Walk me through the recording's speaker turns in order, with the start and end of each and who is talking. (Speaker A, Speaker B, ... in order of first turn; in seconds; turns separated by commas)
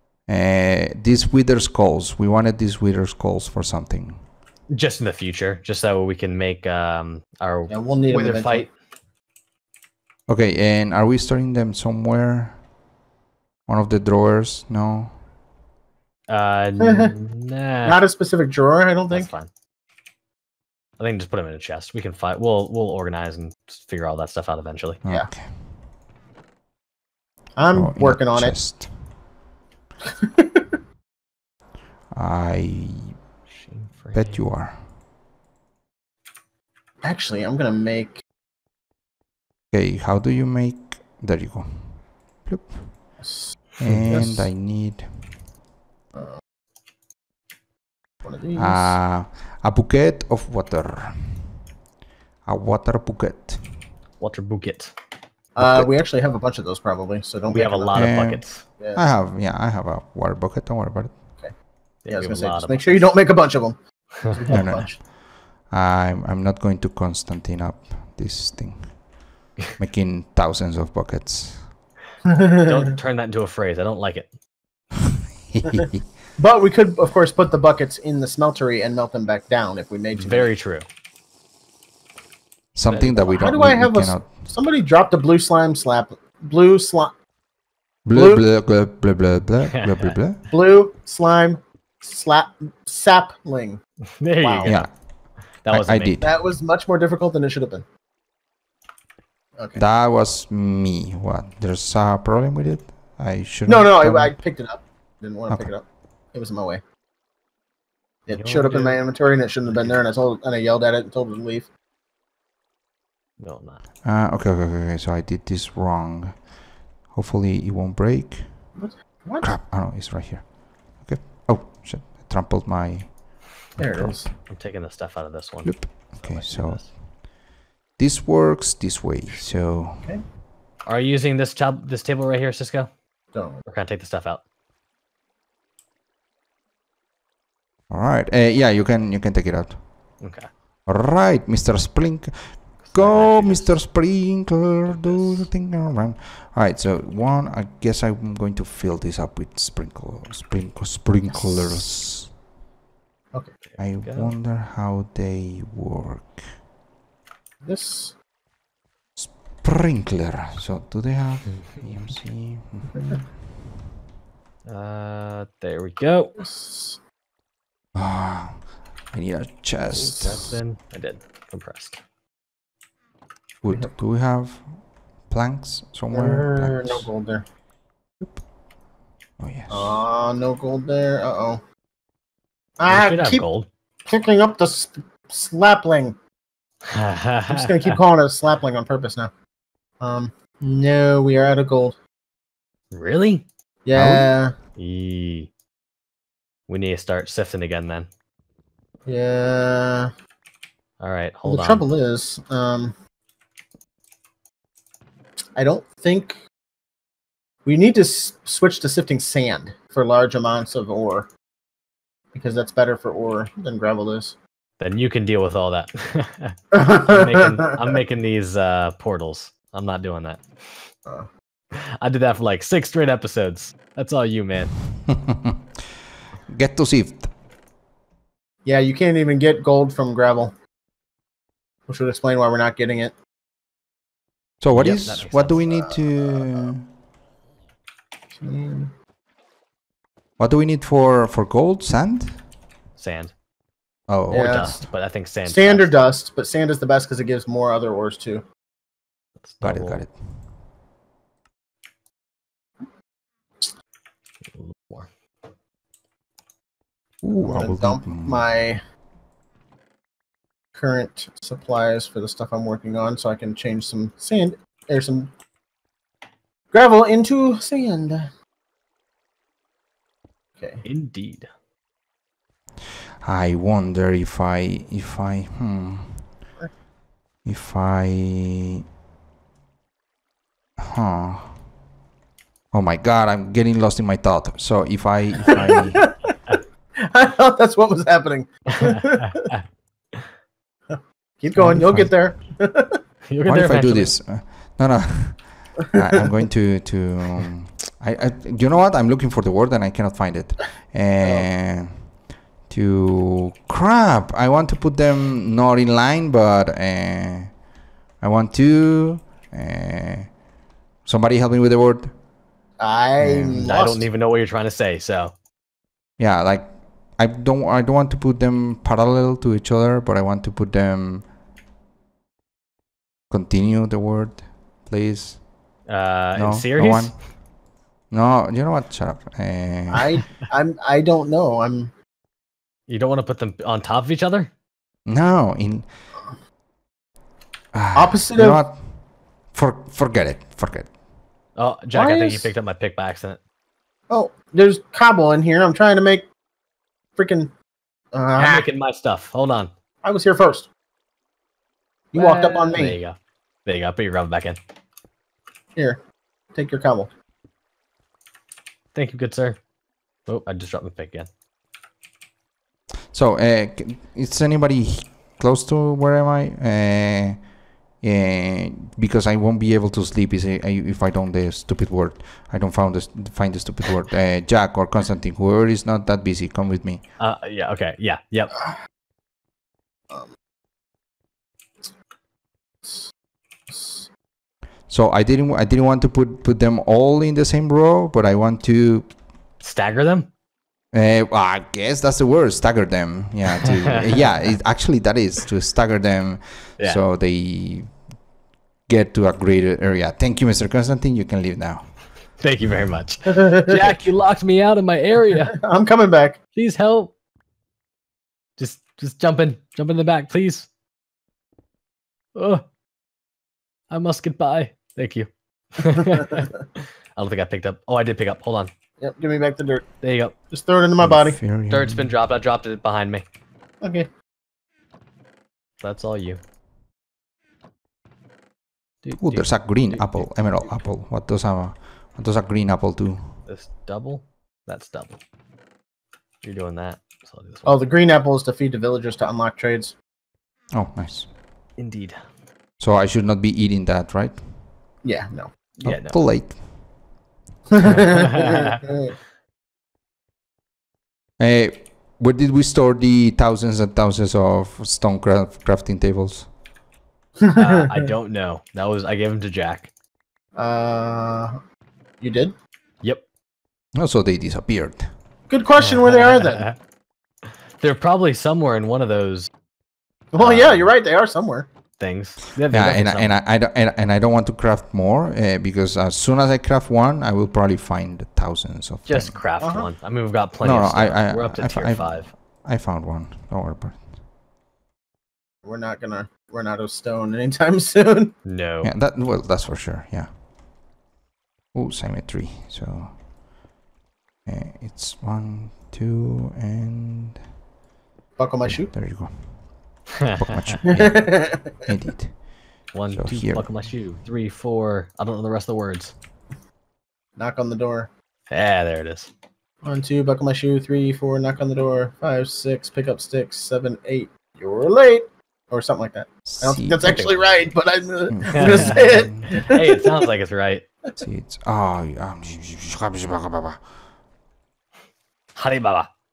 Speaker A: 0.3-4.2, Speaker B: 4.7-8.7, Speaker C: 7.7-8.7, Speaker A: 10.3-12.6, Speaker A: 13.7-15.2, Speaker B: 16.3-18.0, Speaker C: 16.8-17.1, Speaker C: 17.9-19.3, Speaker B: 19.1-19.5, Speaker B: 21.0-25.0, Speaker A: 25.1-25.7, Speaker C: 27.6-28.6, Speaker A: 27.7-28.9, Speaker C: 30.2-30.6, Speaker A: 32.1-33.2, Speaker B: 33.5-34.4, Speaker A: 34.1-34.8, Speaker C: 37.0-38.2, Speaker A: 39.7-43.1, Speaker C: 43.2-44.5, Speaker A: 43.8-45.2, Speaker B: 43.8-44.1, Speaker C: 46.1-46.4, Speaker C: 48.2-49.0, Speaker A: 48.6-51.6, Speaker A: 52.5-53.9, Speaker B: 54.2-54.9, Speaker C: 55.6-59.1, Speaker A: 55.6-55.9, Speaker B: 57.5-58.6, Speaker A: 57.9-61.4, Speaker C: 61.4-65.0, Speaker B: 62.0-63.1, Speaker B: 64.2-64.7, Speaker A: 64.5-65.1, Speaker A: 65.7-69.0, Speaker A: 69.8-71.8, Speaker C: 72.3-72.9, Speaker B: 72.6-74.3, Speaker A: 75.4-76.1, Speaker C: 75.7-80.5, Speaker B: 80.1-80.9, Speaker A: 82.8-84.5, Speaker B: 82.9-83.5, Speaker C: 83.4-87.1, Speaker A: 88.0-90.4, Speaker C: 88.1-88.5, Speaker B: 89.7-90.2, Speaker C: 90.5-93.8, Speaker B: 94.2-94.9, Speaker C: 94.4-94.8, Speaker A: 94.7-95.0, Speaker B: 95.6-96.2, Speaker A: 95.7-96.5, Speaker C: 96.2-97.9, Speaker C: 99.6-99.8, Speaker A: 99.8-104.3, Speaker C: 103.7-106.8, Speaker C: 108.3-111.7, Speaker B: 108.4-109.0, Speaker B: 109.7-110.0, Speaker B: 113.4-113.8, Speaker A: 114.0-116.5, Speaker A: 117.1-118.7, Speaker C: 118.8-119.6, Speaker A: 119.4-123.2, Speaker A: 123.7-124.3, Speaker C: 123.8-124.3, Speaker B: 124.5-126.9, Speaker A: 125.6-127.0, Speaker A: 128.0-130.1, Speaker B: 130.8-132.9, Speaker C: 133.3-133.6, Speaker B: 133.7-134.4, Speaker A: 137.9-139.8, Speaker B: 140.2-140.5, Speaker A: 140.9-152.3, Speaker B: 142.8-143.9, Speaker B: 144.9-145.5, Speaker B: 153.7-154.3, Speaker A: 153.8-156.5, Speaker C: 157.7-158.2, Speaker A: 159.2-163.7, Speaker B: 164.7-166.3, Speaker C: 166.4-167.0, Speaker A: 167.9-170.5, Speaker B: 170.0-172.0, Speaker C: 170.0-170.5, Speaker A: 173.6-174.7, Speaker C: 173.7-173.9, Speaker A: 175.3-177.1, Speaker C: 176.1-177.5, Speaker A: 179.4-180.1, Speaker C: 179.7-181.6, Speaker C: 182.8-183.4, Speaker B: 182.9-183.7, Speaker C: 184.1-186.2, Speaker B: 186.9-188.0, Speaker C: 187.5-189.3, Speaker C: 190.0-192.0, Speaker B: 192.9-193.5, Speaker C: 193.8-194.6, Speaker A: 193.9-194.3, Speaker B: 194.8-195.5, Speaker B: 196.7-198.1, Speaker C: 199.1-200.1, Speaker B: 201.0-201.9, Speaker C: 201.5-202.9, Speaker C: 205.6-206.4, Speaker C: 207.7-211.3, Speaker C: 212.3-214.4, Speaker B: 214.8-220.9, Speaker C: 216.7-217.8, Speaker B: 221.7-224.8, Speaker A: 225.1-227.3, Speaker C: 228.7-230.5, Speaker C: 231.9-233.1, Speaker A: 234.6-236.9, Speaker B: 234.7-235.6, Speaker C: 235.5-236.7, Speaker C: 238.3-238.9, Speaker A: 240.4-242.4, Speaker B: 243.0-243.3, Speaker A: 244.1-244.8, Speaker C: 244.3-244.8, Speaker B: 244.3-245.9, Speaker C: 245.4-248.5, Speaker B: 249.4-250.1, Speaker A: 249.6-250.4, Speaker B: 254.5-255.1, Speaker A: 257.2-258.5, Speaker C: 257.4-258.8, Speaker C: 260.7-265.3, Speaker C: 266.7-268.3, Speaker C: 270.6-270.9, Speaker B: 270.8-271.5, Speaker A: 273.2-276.3, Speaker A: 277.4-278.8, Speaker A: 280.8-281.6, Speaker A: 282.7-286.1, Speaker C: 285.9-289.5, Speaker B: 288.7-289.6, Speaker C: 290.9-293.0, Speaker A: 291.6-292.2, Speaker B: 293.3-294.1, Speaker A: 293.4-302.1, Speaker C: 295.9-296.2, Speaker C: 301.2-301.5, Speaker A: 302.6-307.6, Speaker A: 308.2-310.3, Speaker A: 311.1-312.1, Speaker C: 312.8-314.1, Speaker A: 313.2-313.8, Speaker B: 313.6-315.3, Speaker A: 316.2-321.3, Speaker A: 323.3-325.4, Speaker B: 325.9-327.2, Speaker A: 326.4-327.2, Speaker A: 328.1-330.2, Speaker C: 329.9-331.9, Speaker B: 332.9-334.5, Speaker A: 335.1-335.9, Speaker A: 337.7-339.0, Speaker C: 337.9-338.6, Speaker A: 339.5-340.9, Speaker B: 341.6-343.4, Speaker C: 341.9-342.5, Speaker C: 344.1-346.3, Speaker C: 347.2-347.5, Speaker C: 348.1-348.7, Speaker B: 348.4-349.7, Speaker C: 350.0-350.7, Speaker C: 352.1-353.0, Speaker B: 352.1-354.6, Speaker C: 356.5-357.1, Speaker B: 358.9-359.6, Speaker B: 360.3-361.3, Speaker A: 363.1-367.4, Speaker A: 368.0-377.0, Speaker B: 377.2-378.6, Speaker C: 382.8-383.1, Speaker C: 383.7-384.1, Speaker A: 384.9-389.1, Speaker B: 389.6-390.3, Speaker A: 390.9-397.9, Speaker A: 398.9-402.1, Speaker B: 402.4-405.6, Speaker C: 403.3-404.0, Speaker C: 405.5-406.4, Speaker B: 406.6-407.1, Speaker B: 408.6-410.7, Speaker B: 412.4-412.6, Speaker B: 413.9-416.5, Speaker C: 416.0-416.6, Speaker B: 417.2-418.7, Speaker C: 419.0-419.9, Speaker B: 420.0-420.3, Speaker C: 420.5-421.4, Speaker A: 421.0-422.1, Speaker B: 421.7-423.3, Speaker C: 423.8-424.1, Speaker B: 425.8-426.4, Speaker B: 429.0-430.3, Speaker A: 429.2-433.4, Speaker B: 433.5-435.2, Speaker B: 436.4-437.8, Speaker C: 437.7-439.9, Speaker A: 440.7-441.3, Speaker B: 441.8-442.2, Speaker A: 442.8-444.4, Speaker C: 445.0-445.5, Speaker B: 445.8-446.2, Speaker A: 445.8-446.6, Speaker C: 447.7-449.1, Speaker B: 447.8-448.8, Speaker A: 451.4-456.5, Speaker C: 457.4-458.1, Speaker B: 457.6-459.9, Speaker C: 460.6-461.6, Speaker C: 462.2-462.6, Speaker A: 464.0-465.0, Speaker C: 465.5-466.7, Speaker B: 465.8-466.8, Speaker B: 467.4-469.5, Speaker C: 470.3-471.7, Speaker B: 470.4-470.9, Speaker B: 472.0-473.3, Speaker A: 472.7-479.4, Speaker B: 479.1-482.3, Speaker C: 479.6-479.9, Speaker A: 480.6-484.0, Speaker C: 485.6-488.4, Speaker B: 488.4-488.9, Speaker A: 488.8-490.4, Speaker A: 491.7-493.2, Speaker A: 494.4-497.4, Speaker C: 498.4-498.9, Speaker A: 498.7-499.6, Speaker B: 500.2-500.8, Speaker A: 500.4-502.4, Speaker C: 500.9-501.9, Speaker B: 502.9-506.2, Speaker A: 503.1-503.7, Speaker C: 507.4-508.1, Speaker B: 508.5-509.3, Speaker C: 509.8-520.2, Speaker A: 516.5-517.3, Speaker B: 517.0-517.3, Speaker A: 518.3-519.5, Speaker B: 518.5-520.9, Speaker A: 521.2-523.9, Speaker B: 525.5-526.1